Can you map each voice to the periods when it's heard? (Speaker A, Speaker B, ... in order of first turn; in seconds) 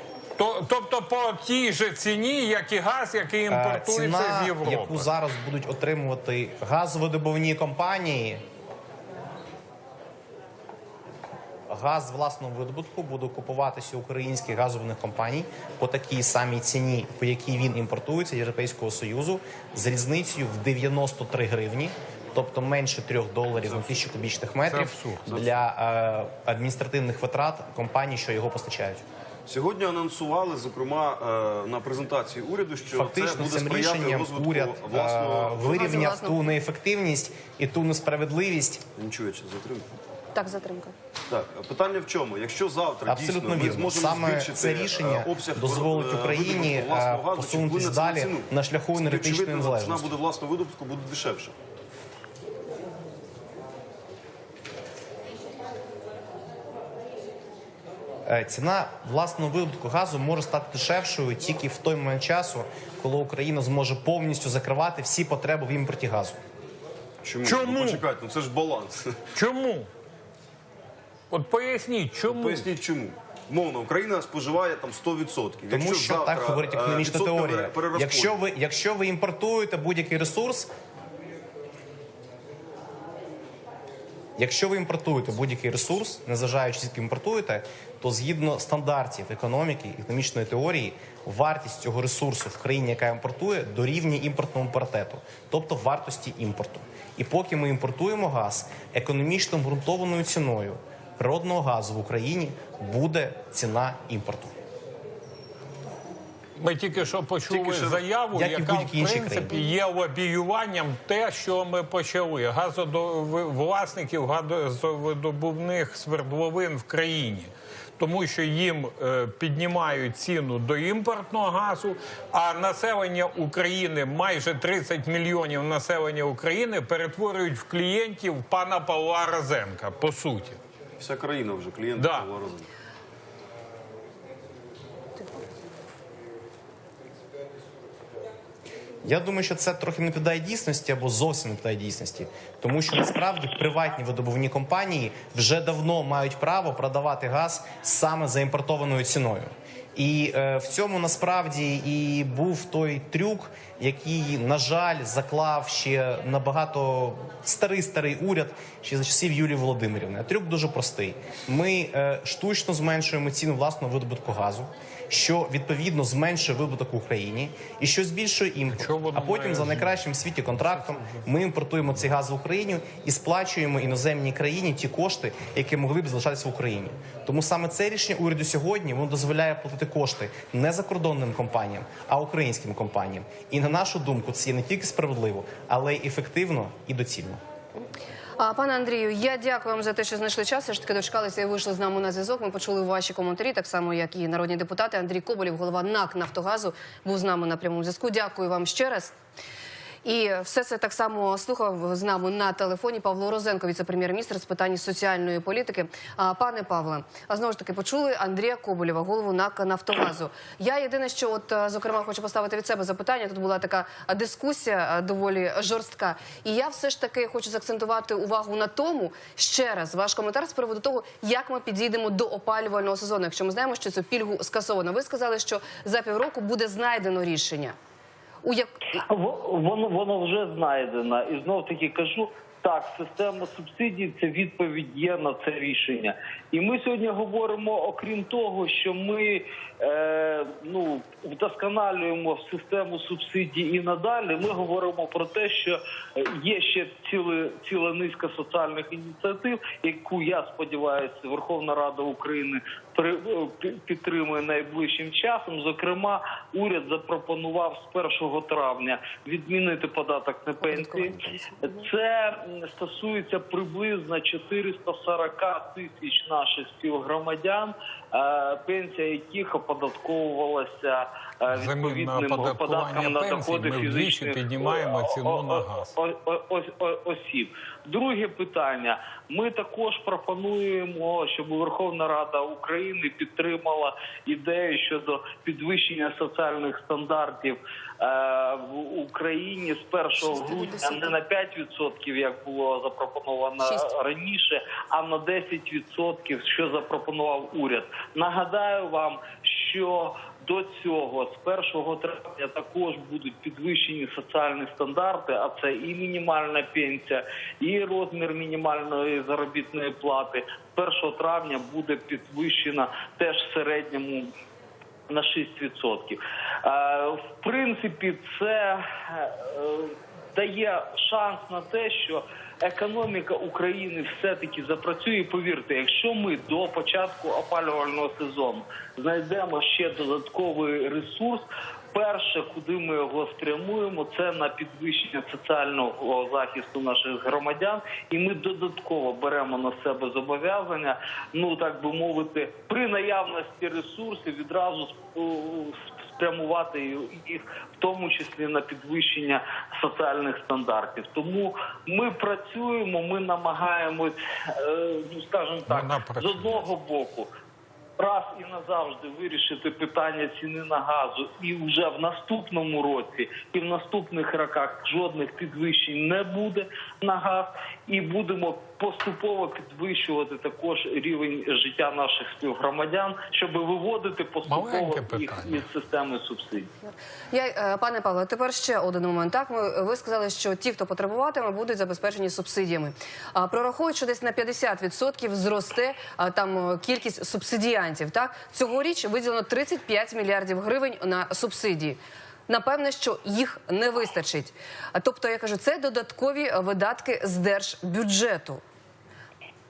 Speaker A: 0.4-5.1, 24.7-25.5, 67.4-68.1, 69.3-69.9, 71.3-72.7, 106.6-130.6, 132.0-132.3, 168.8-171.2, 271.5-275.9, 355.7-356.6, 374.5-375.7
Speaker B: 3.5-8.4, 11.7-29.0, 32.9-38.9, 43.0-50.1, 58.3-66.4, 75.7-80.7, 84.4-104.5, 108.3-109.6, 139.0-187.4
Speaker C: 23.6-24.0, 29.5-36.1, 39.0-39.9, 41.3-51.6, 67.2-69.3, 72.2-78.4, 107.5-108.0, 131.0-132.7
Speaker D: 35.7-36.5, 40.4-40.9, 188.4-199.2, 200.1-227.8, 228.4-228.8, 260.7-261.8, 377.3-398.6
Speaker E: 229.0-314.3, 315.1-357.3, 358.0-376.7